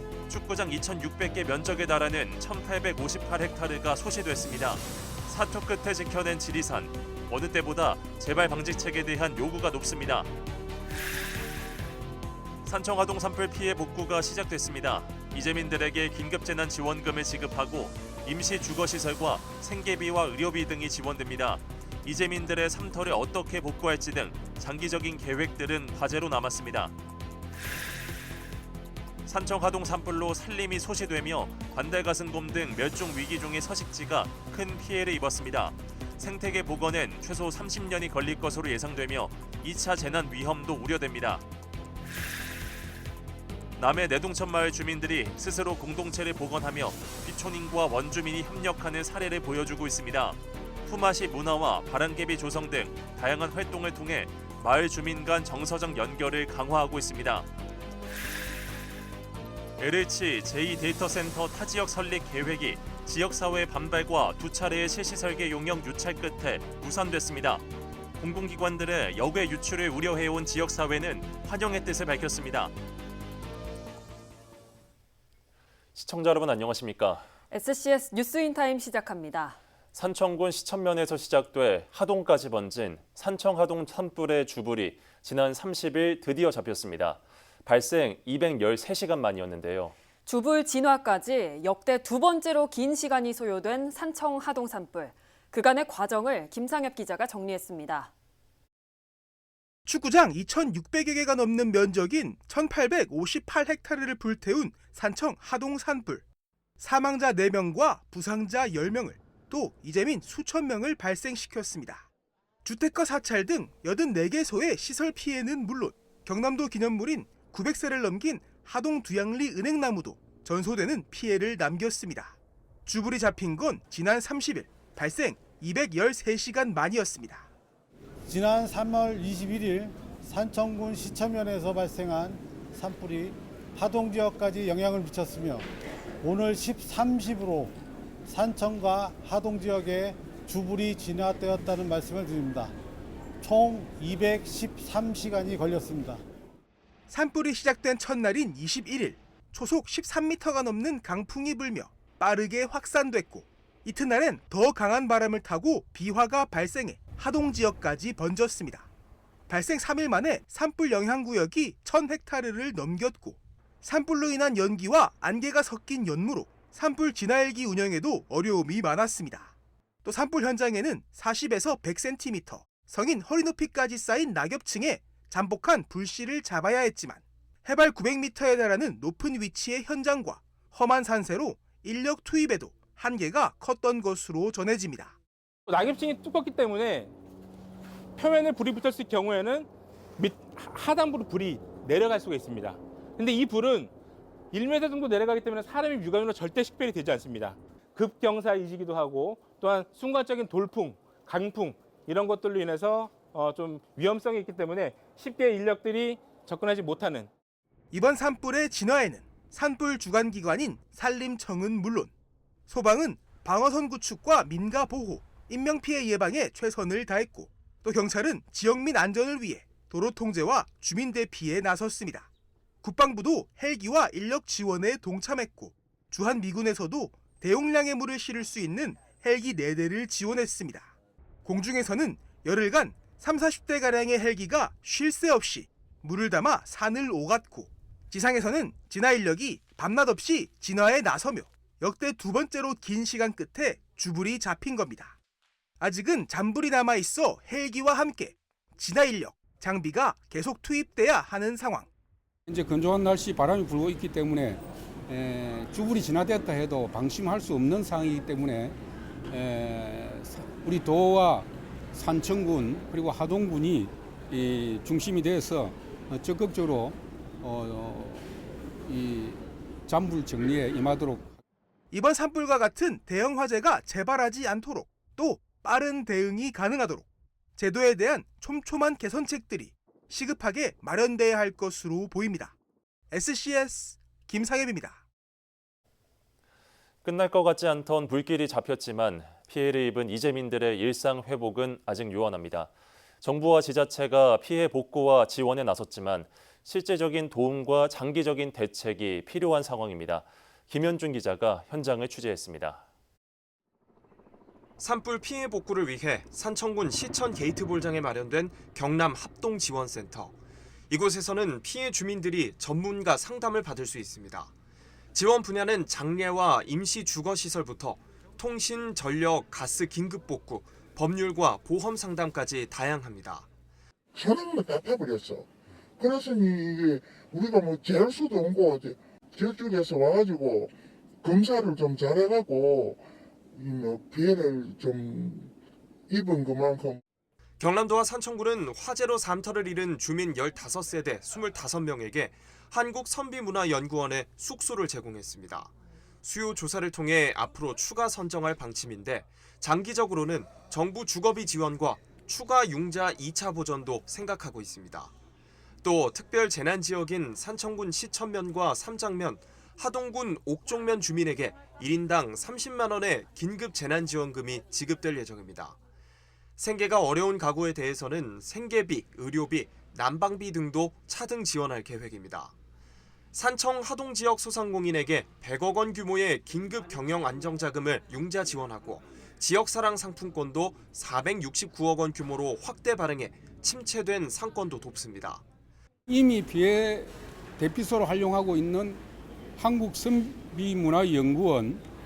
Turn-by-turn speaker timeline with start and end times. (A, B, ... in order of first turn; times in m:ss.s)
0:00.3-0:10.2 A
0:12.6-0:26.9 A
0:29.3-0:41.4 A
0:43.8-0:57.4 A
0:59.8-1:07.6 A
1:08.2-1:12.7 A
1:16.0-1:17.3 A
1:17.5-1:19.6 B
1:19.9-1:29.9 A
1:30.2-1:38.1 B
1:39.8-1:46.2 C
1:46.8-1:52.1 C
1:52.6-2:07.5 C
2:08.3-2:15.7 D
2:16.2-2:17.7 D
2:18.3-2:22.7 D
2:23.4-2:26.2 D
2:27.1-2:38.9 C
2:39.5-3:05.2 C
3:05.7-3:07.1 E
3:08.2-3:13.9 E
3:14.5-3:27.3 E
3:27.9-3:32.1 C
3:32.7-3:42.3 C
3:42.8-3:50.9 C
3:51.4-4:05.2 C
4:05.8-4:11.9 C
4:12.5-4:18.8 F
4:19.3-4:31.3 F
4:31.9-4:37.0 C
4:37.6-4:42.5 C
4:43.1-4:45.0 C
4:47.0-5:02.8 A
5:04.8-5:10.4 G
5:10.9-5:14.5 G
5:15.1-5:23.5 G
5:24.1-5:25.4 H
5:26.0-5:30.7 H
5:31.2-5:33.0 H
5:33.5-5:35.5 H
5:36.1-5:37.0 H
5:37.6-5:55.1 G
5:55.8-6:05.8 G
6:06.6-6:12.5 G
6:13.3-6:25.4 G
6:26.1-6:29.0 F
6:29.6-6:31.8 F